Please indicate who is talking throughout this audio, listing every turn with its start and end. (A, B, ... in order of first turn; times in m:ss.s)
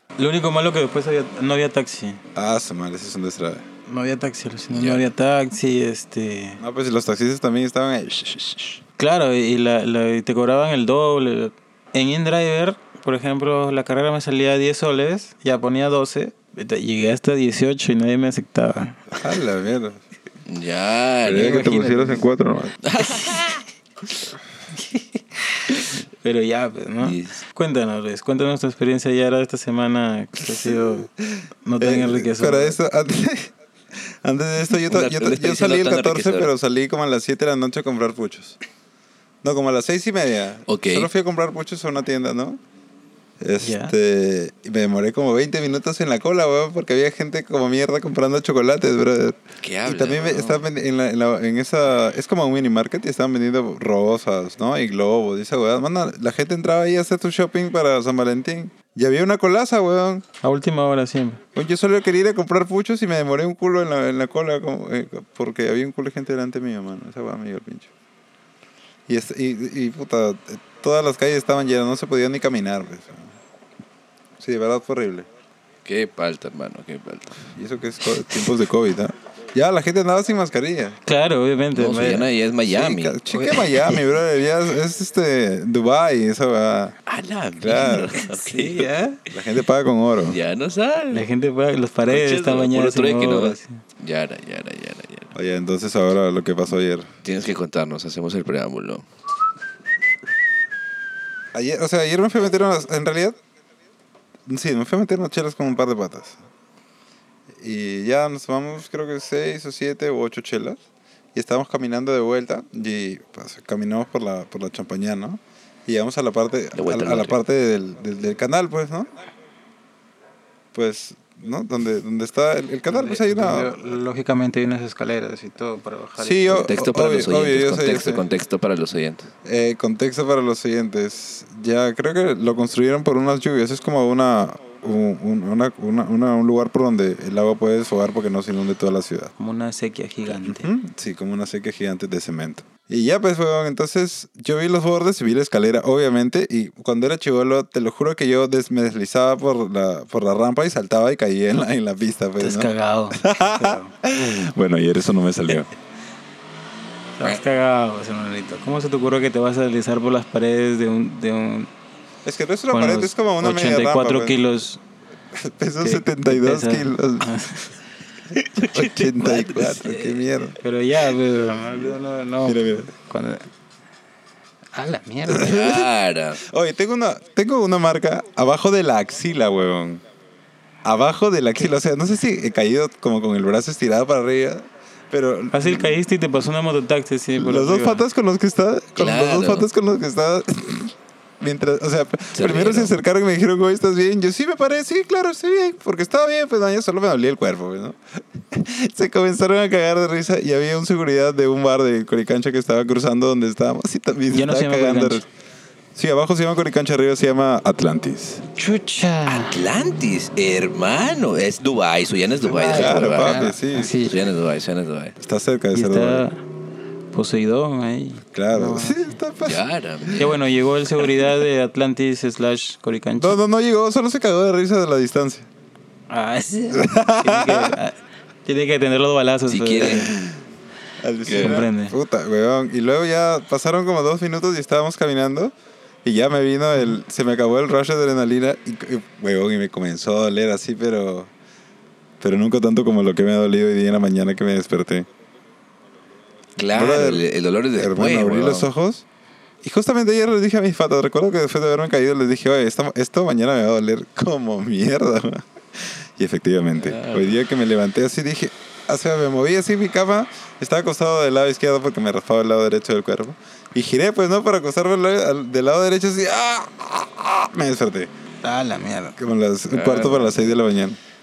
0:00.2-0:02.2 A
0:02.4-0:03.6 B
0:03.9-0:06.6 A
0:04.7-0:05.1 C
0:06.6-0:08.8 B
0:09.0-0:19.2 A
0:19.2-0:20.0 B
0:20.5-0:21.6 C
0:21.2-0:22.8 B
0:21.3-0:22.2 A
0:22.8-0:23.6 C
0:26.2-0:31.1 A
0:27.0-0:27.4 C
0:30.4-0:38.6 B
0:31.6-0:32.8 A
0:34.9-0:36.5 C
0:39.4-0:42.6 B
0:40.7-0:41.1 C
0:43.4-1:00.2 B
0:43.6-0:43.9 A
0:49.6-0:50.7 C
1:00.4-1:01.4 A
1:01.6-1:07.9 B
1:09.1-1:13.3 B
1:14.4-1:15.3 B
1:15.8-1:17.4 C
1:17.6-1:21.0 B
1:21.0-1:22.3 A
1:21.7-1:24.0 C
1:22.7-1:27.0 B
1:27.1-1:28.9 C
1:27.6-1:28.2 B
1:28.3-1:29.2 A
1:29.3-1:30.4 B
1:30.3-1:31.2 C
1:31.1-1:33.8 A
1:32.1-1:35.3 C
1:35.4-1:37.1 B
1:37.2-1:39.0 C
1:41.5-1:43.4 B
1:44.5-1:46.4 B
1:47.6-1:50.8 B
1:51.3-1:59.1 B
1:56.8-1:57.4 C
2:00.7-2:03.8 B
2:02.9-2:06.7 A
2:06.2-2:08.2 B
2:06.6-2:09.3 C
2:09.4-2:19.3 B
2:19.4-2:20.7 A
2:20.3-2:35.7 B
2:32.4-2:33.9 A
2:37.2-2:41.7 A
2:42.2-2:44.4 B
2:42.7-2:44.8 A
2:45.3-2:47.3 B
2:45.8-2:47.7 A
2:48.6-2:49.0 C
2:48.7-2:50.6 B
2:48.8-2:53.5 A
2:52.4-2:52.9 B
2:54.7-2:55.6 A
2:55.3-2:55.9 B
2:55.4-2:56.4 C
2:56.4-3:00.0 B
3:00.8-3:06.0 B
3:05.5-3:08.0 A
3:07.4-3:25.2 B
3:09.0-3:09.7 C
3:12.4-3:12.9 C
3:24.3-3:25.2 A
3:26.0-3:28.4 B
3:28.6-3:29.6 A
3:29.3-3:35.2 C
3:32.5-3:34.0 B
3:32.6-3:34.2 A
3:35.2-3:36.2 B
3:35.7-3:36.4 A
3:37.1-3:39.1 A
3:38.3-3:40.1 B
3:39.4-3:40.4 C
3:40.2-3:43.4 A
3:43.2-3:45.5 B
3:46.1-3:50.2 A
3:46.7-3:47.8 B
3:49.5-3:50.1 C
3:49.9-3:50.4 B
3:51.0-4:01.3 B
3:51.3-3:51.6 C
3:51.4-3:52.0 A
4:02.2-4:05.1 B
4:06.6-4:08.7 C
4:06.7-4:07.2 B
4:07.8-4:09.1 B
4:09.6-4:28.1 B
4:16.8-4:17.4 C
4:28.4-4:29.2 A
4:29.2-4:31.0 B
4:29.7-4:30.6 C